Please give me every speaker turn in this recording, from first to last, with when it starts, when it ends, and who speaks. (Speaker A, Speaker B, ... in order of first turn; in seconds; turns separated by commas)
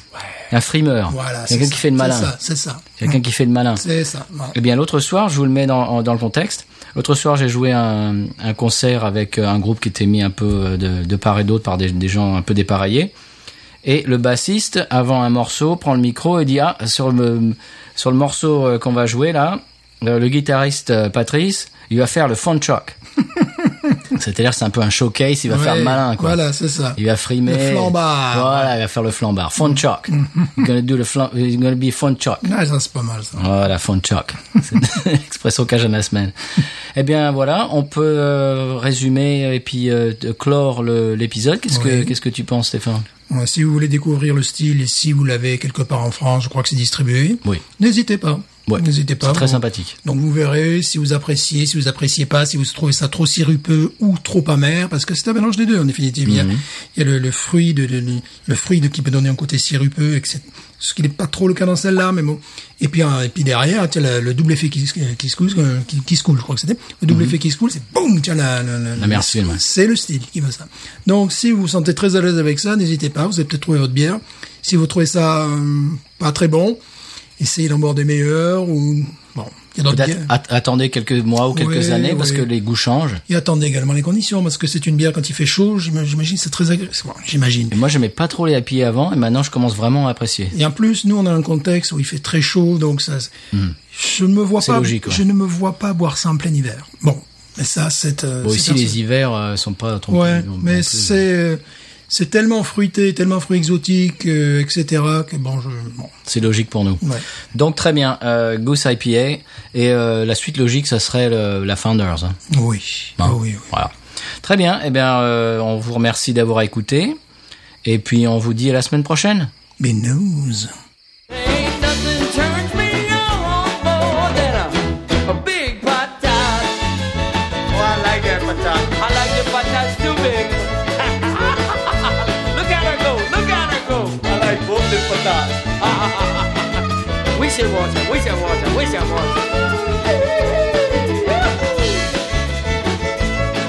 Speaker A: 0.5-2.3, Speaker B: 1.1-3.0, Speaker A: 3.0-3.8, Speaker B: 3.8-4.6, Speaker A: 4.5-13.1, Speaker A: 13.8-23.0, Speaker A: 24.1-26.4, Speaker B: 25.5-28.7, Speaker A: 27.0-32.5, Speaker B: 32.4-33.4, Speaker A: 33.4-36.3, Speaker A: 37.0-43.1, Speaker B: 41.7-42.1, Speaker B: 43.3-76.8, Speaker A: 48.7-50.0, Speaker A: 56.3-56.6, Speaker A: 69.0-69.6, Speaker B: 77.4-80.3, Speaker A: 79.9-83.2, Speaker B: 81.5-82.5, Speaker B: 83.3-87.8, Speaker A: 87.7-90.5, Speaker B: 90.5-93.3, Speaker B: 93.9-99.0, Speaker A: 94.6-95.2, Speaker A: 98.4-101.2, Speaker B: 100.1-106.2, Speaker A: 106.2-112.4, Speaker B: 112.5-113.7, Speaker A: 113.2-117.2, Speaker A: 117.8-119.5, Speaker B: 119.8-120.7, Speaker C: 121.3-126.9, Speaker C: 127.7-139.6, Speaker C: 140.6-141.8